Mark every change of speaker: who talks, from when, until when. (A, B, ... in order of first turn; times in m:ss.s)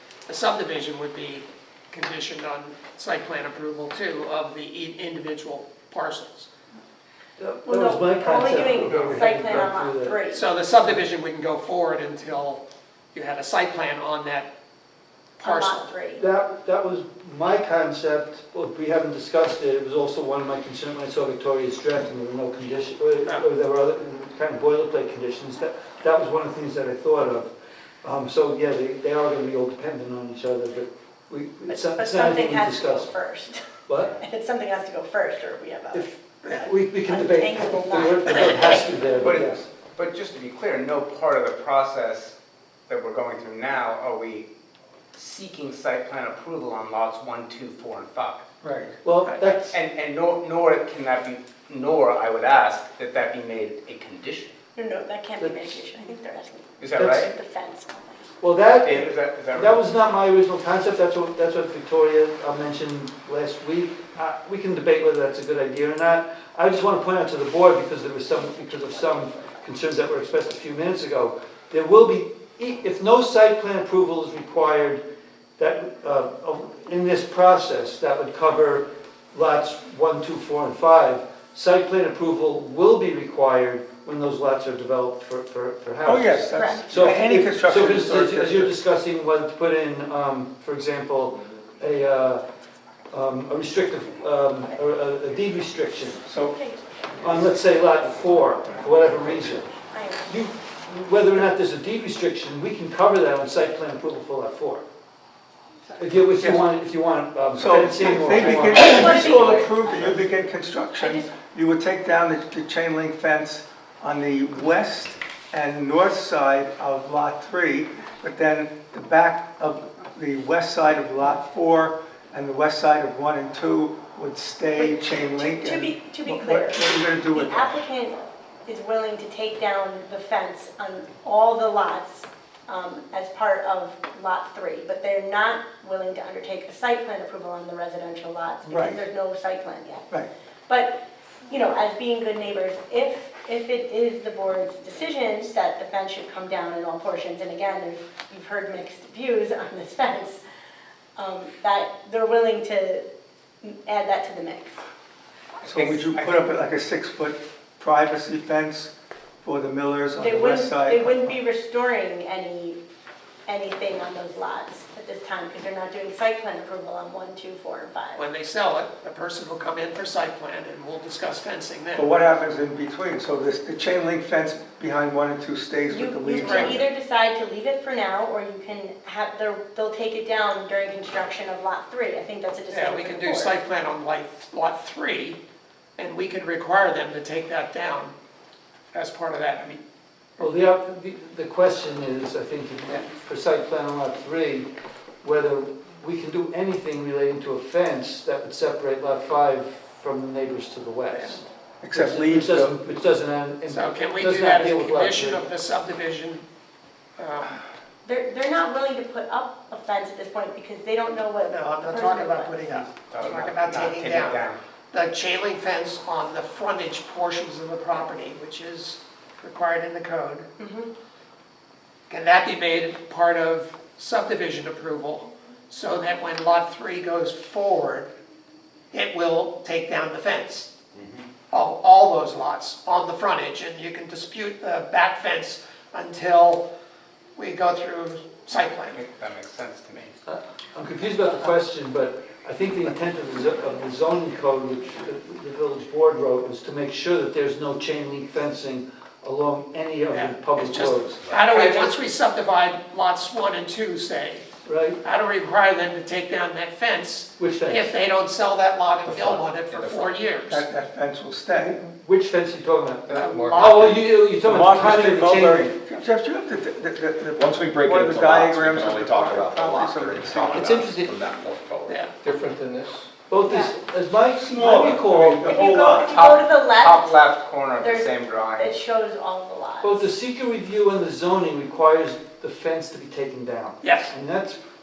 0:00.3-0:06.5 A
0:07.4-0:10.2 B
0:07.6-0:10.5 C
0:08.6-0:09.2 D
0:10.3-0:14.5 A
0:15.4-0:15.9 A
0:15.4-0:16.3 C
0:16.2-0:27.5 B
0:28.0-0:33.1 B
0:31.7-0:39.3 C
0:33.9-0:34.2 B
0:35.9-0:39.7 B
0:39.2-0:42.4 D
0:42.9-0:44.5 D
0:45.1-0:48.4 D
0:48.6-0:49.0 E
0:49.0-0:49.8 B
0:49.3-0:49.5 A
0:49.7-0:54.5 D
0:54.8-0:58.4 C
0:55.4-0:55.8 B
0:56.8-0:57.3 D
0:58.4-1:15.0 B
0:58.8-0:59.8 D
1:15.6-1:32.4 B
1:26.0-1:28.7 E
1:26.5-1:26.9 C
1:33.1-1:36.2 B
1:36.3-1:36.6 E
1:36.5-1:37.1 C
1:37.2-1:39.7 B
1:39.9-1:40.4 C
1:40.3-1:44.8 B
1:46.0-1:48.9 B
1:47.6-2:07.8 E
1:48.0-1:50.1 C
1:48.2-1:50.2 D
1:51.0-1:51.4 C
2:04.7-2:20.1 C
2:18.6-2:19.0 E
2:20.7-2:30.4 C
2:31.2-2:33.1 C
2:33.6-2:34.8 C
2:35.6-2:41.4 E
2:35.7-2:36.5 D
2:40.2-2:42.8 C
2:43.5-2:48.2 C
2:48.2-2:52.1 A
2:52.0-2:56.9 E
2:55.9-3:03.6 C
2:56.4-2:56.8 A
3:02.7-3:05.4 A
3:06.0-3:08.1 A
3:08.9-3:09.8 A
3:10.4-3:14.7 B
3:15.2-3:25.4 B
3:21.1-3:21.4 A
3:21.8-3:22.8 E
3:23.7-3:26.5 A
3:27.2-3:27.6 A
3:28.0-3:32.8 C
3:31.4-3:40.5 A
3:33.1-3:34.6 D
3:40.6-3:40.9 C
3:42.1-3:48.1 A
3:48.9-3:50.7 A
3:51.5-3:56.6 A
3:57.4-3:59.0 A
3:58.9-4:00.1 D
4:00.3-4:11.9 B
4:10.1-4:14.5 A
4:14.6-4:15.0 B
4:15.0-4:20.7 A
4:17.4-4:17.9 B
4:19.0-4:20.1 F
4:20.5-4:21.8 E
4:21.6-4:25.7 B
4:23.1-4:24.1 A
4:23.2-4:23.9 F
4:24.4-4:30.7 E
4:27.3-4:33.0 F
4:30.5-4:31.1 B
4:31.9-4:32.2 A
4:33.3-4:35.4 B
4:33.4-4:33.8 C
4:34.4-4:36.1 E
4:35.4-4:40.1 C
4:35.5-4:38.8 D
4:39.8-4:44.6 B
4:43.8-4:44.1 A